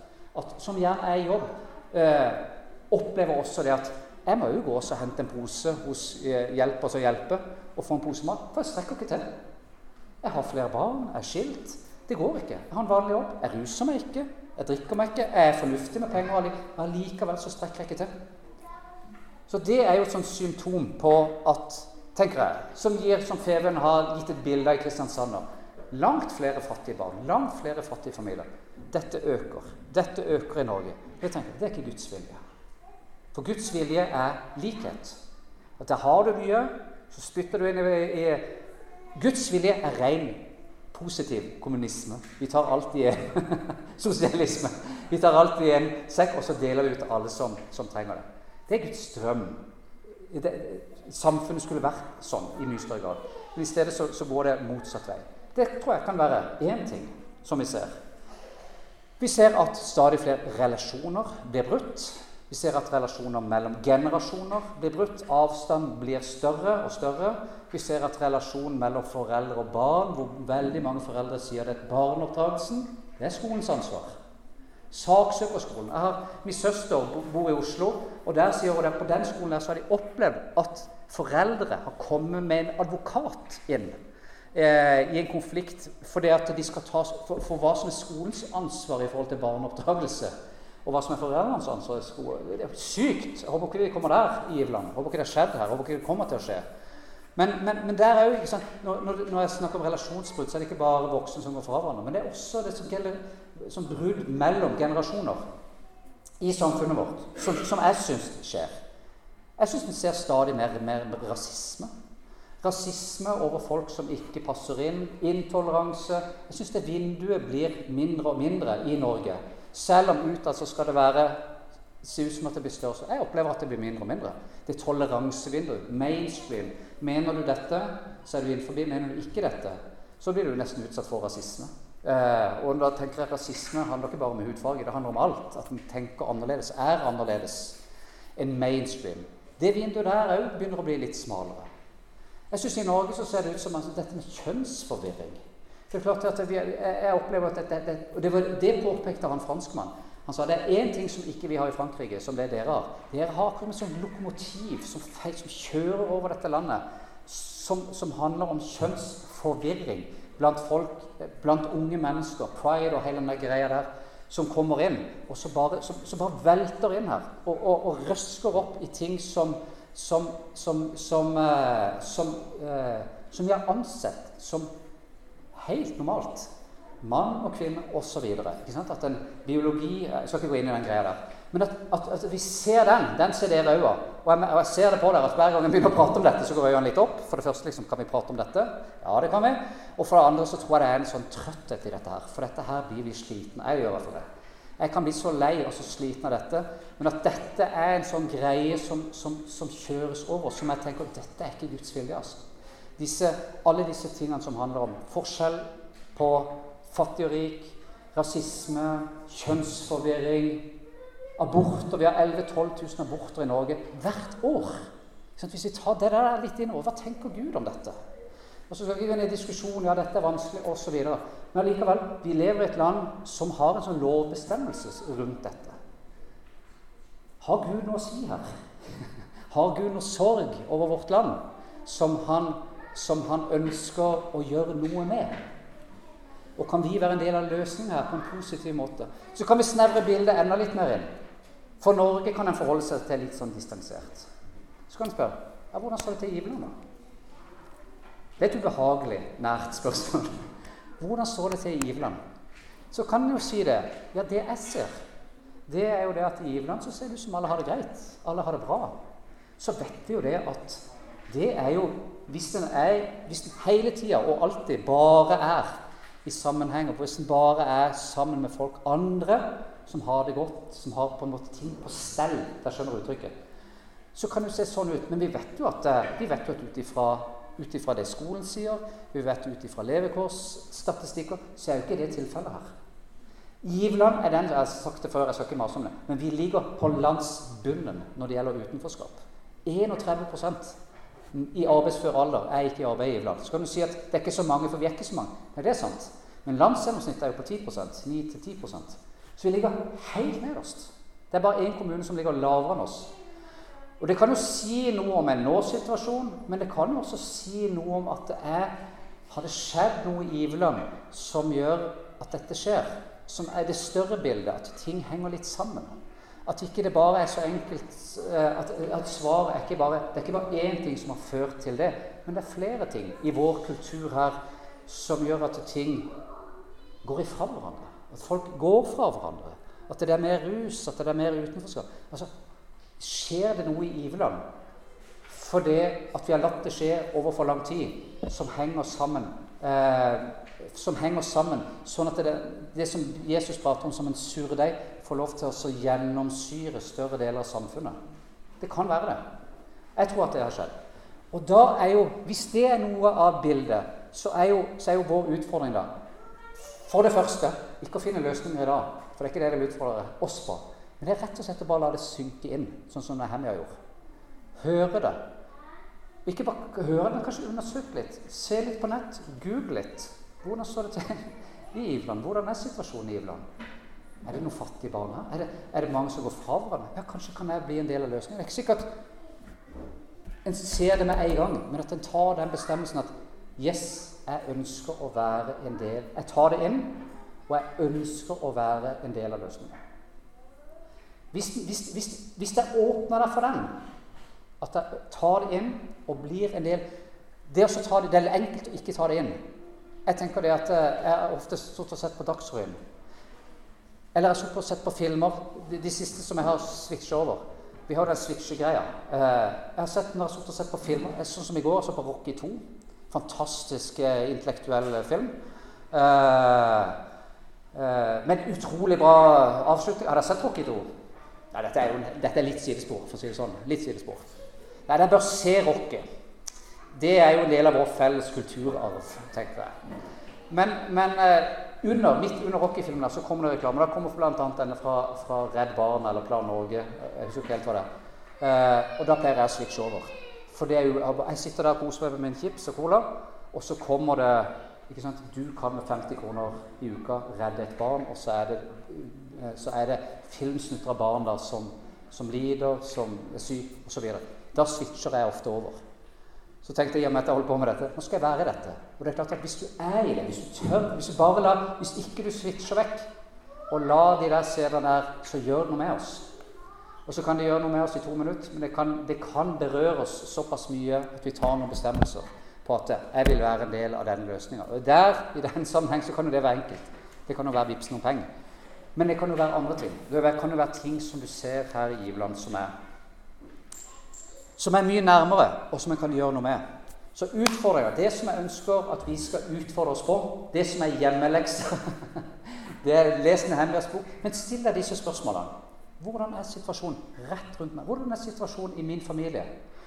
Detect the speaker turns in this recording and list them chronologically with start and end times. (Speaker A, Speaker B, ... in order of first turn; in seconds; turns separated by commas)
Speaker A: 0.3-9.3, Speaker A: 10.2-18.1, Speaker A: 19.5-32.4, Speaker A: 33.3-35.2, Speaker A: 35.8-38.6, Speaker A: 39.2-49.6, Speaker A: 50.3-58.0, Speaker A: 59.2-74.2, Speaker A: 74.9-84.0, Speaker A: 84.5-90.3, Speaker A: 90.8-96.6, Speaker A: 97.4-105.4, Speaker A: 106.4-108.8, Speaker A: 109.6-111.9, Speaker A: 112.6-121.4, Speaker A: 122.0-137.8, Speaker A: 138.4-141.7, Speaker A: 142.5-174.7, Speaker A: 175.6-176.5, Speaker A: 177.0-194.2, Speaker A: 194.8-202.4, Speaker A: 203.0-210.7, Speaker A: 211.4-218.0, Speaker A: 218.7-225.8, Speaker A: 227.4-228.6, Speaker A: 229.5-235.4, Speaker A: 236.6-241.1, Speaker A: 241.8-244.3, Speaker A: 244.9-246.7, Speaker A: 248.4-250.4, Speaker A: 251.0-252.2, Speaker A: 252.9-255.0, Speaker A: 255.7-259.0, Speaker A: 259.6-273.3, Speaker A: 274.1-282.7, Speaker A: 283.6-290.8, Speaker A: 291.3-303.1, Speaker A: 304.0-308.8, Speaker A: 309.3-315.9, Speaker A: 316.5-326.1, Speaker A: 327.0-332.3, Speaker A: 333.0-334.4, Speaker A: 335.3-348.0, Speaker A: 348.6-349.2, Speaker A: 350.0-350.7, Speaker A: 351.3-355.9, Speaker A: 356.8-363.8, Speaker A: 364.6-365.2, Speaker A: 366.3-373.4, Speaker A: 374.2-378.9, Speaker A: 380.4-389.8, Speaker A: 391.3-393.8, Speaker A: 394.6-396.8, Speaker A: 397.5-399.4, Speaker A: 400.1-402.8, Speaker A: 404.1-415.4, Speaker A: 415.9-417.0, Speaker A: 417.7-420.9, Speaker A: 421.5-424.3, Speaker A: 424.9-426.1, Speaker A: 426.9-429.8, Speaker A: 430.5-437.9, Speaker A: 438.4-455.8, Speaker A: 456.6-463.1, Speaker A: 463.7-466.3, Speaker A: 467.1-478.3, Speaker A: 478.9-482.7, Speaker A: 484.6-486.6, Speaker A: 487.1-492.2, Speaker A: 492.8-499.5